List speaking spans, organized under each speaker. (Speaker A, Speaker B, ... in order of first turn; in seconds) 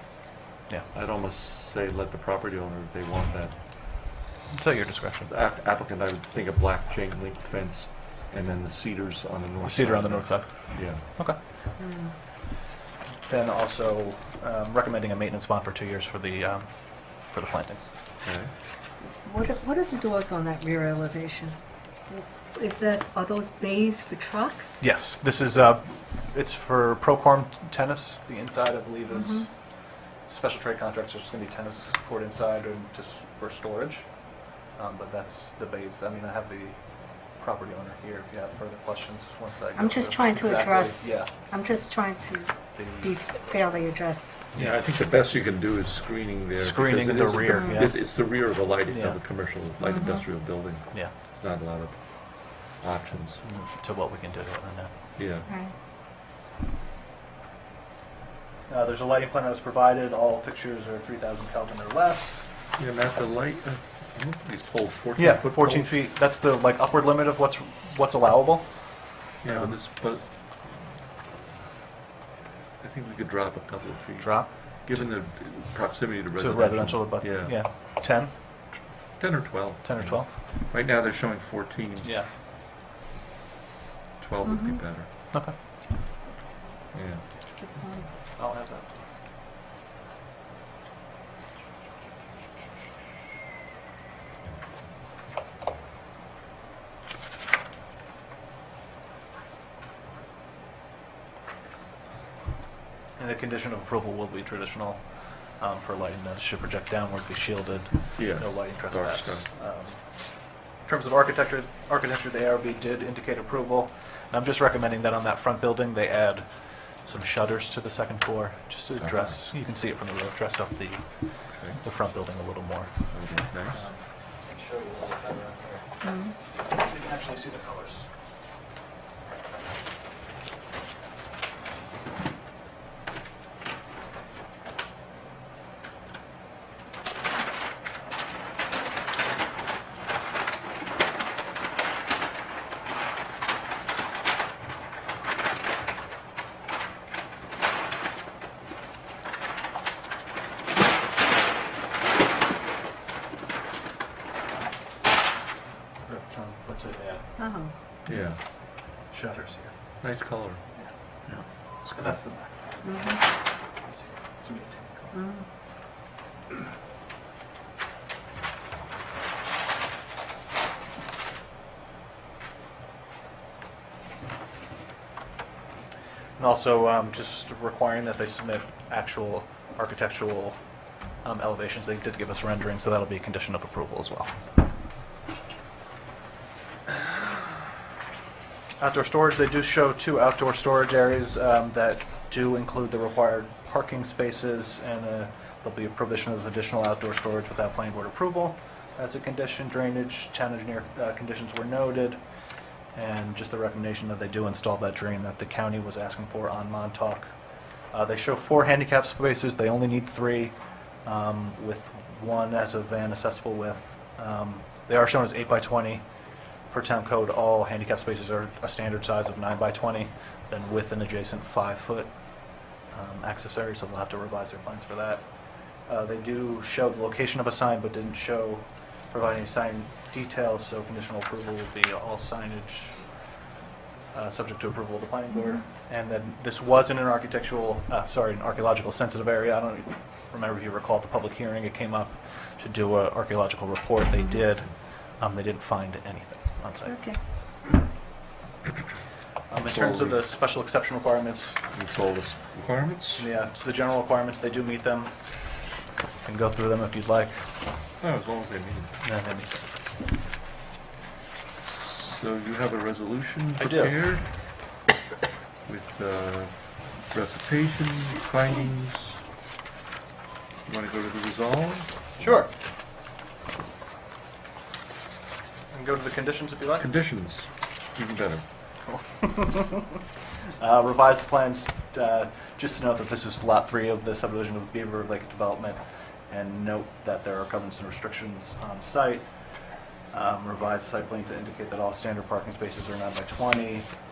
Speaker A: 0.9-4.0, 5.2-11.0, 18.2-18.5, 44.5-53.4, 55.1-55.5, 62.8-65.9, 69.4-70.9, 72.8-77.6, 79.2-82.1, 84.2-85.1, 86.9-87.2, 108.2-109.5, 119.0-119.3, 121.5-121.8, 123.1-123.8, 158.1-158.4, 160.0-160.6, 161.8-162.2, 249.6-250.2, 251.7-253.3, 258.0-258.9, 261.6-264.3, 265.6-269.2, 270.6-272.4, 276.8-278.4
Speaker B: 4.5-5.3, 9.6-11.4, 13.3-17.9, 24.8-29.5, 30.2-34.1, 34.7-36.8, 37.3-41.3, 42.7-43.1, 46.5-49.2, 53.4-54.9, 58.7-62.4, 65.2-69.8, 74.2-75.8, 76.4-78.3, 79.8-80.3, 88.4-88.9, 103.2-123.1, 123.7-125.9, 126.5-128.1, 156.0-157.3, 159.1-159.7, 160.7-162.9, 163.8-165.2, 176.4-180.6, 181.2-184.3, 188.8-202.2, 202.9-207.3, 207.9-216.0, 216.7-222.1, 222.9-225.2, 225.9-233.0, 234.1-247.0, 249.5-251.6, 253.2-255.7, 256.2-257.5, 259.0-259.6, 263.6-264.0, 272.2-272.5, 275.7-276.9, 278.9-280.0, 280.6-289.2, 290.1-293.9
Speaker C: 11.8-12.1, 19.2-21.6, 22.1-24.8, 29.1-29.4, 39.8-44.5, 49.8-50.2, 55.5-55.7, 84.4-85.0, 85.9-86.5, 87.5-88.1, 126.0-126.3, 157.4-157.7, 162.8-163.2, 165.1-165.4, 246.8-247.2